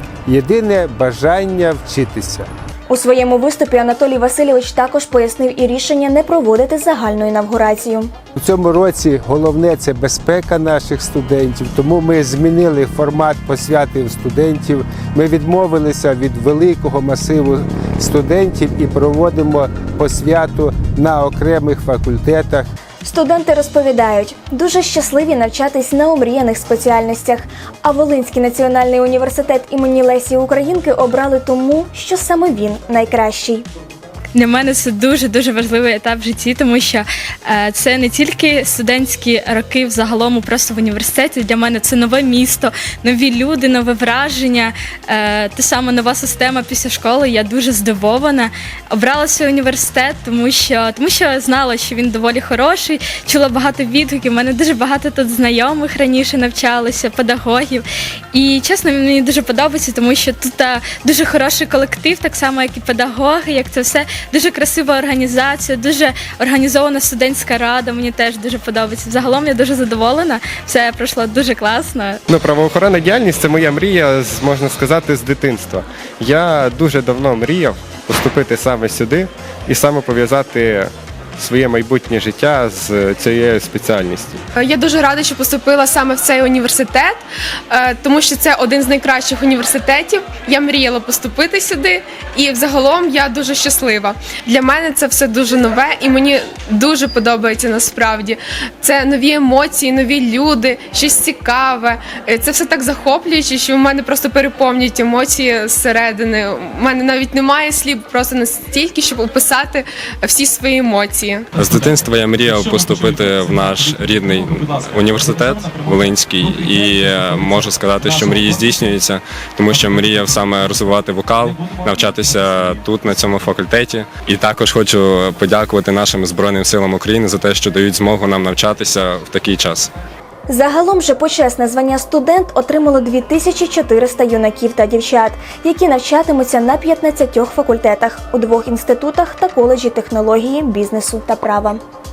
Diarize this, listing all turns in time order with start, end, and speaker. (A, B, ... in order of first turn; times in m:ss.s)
0:00.2-0:02.5 A
0:02.9-0:08.1 B
0:08.4-0:22.7 A
0:23.0-0:33.6 B
0:34.3-1:12.2 C
1:12.3-1:24.4 D
1:24.6-1:51.5 E
1:51.5-2:09.9 F
2:10.5-2:21.8 B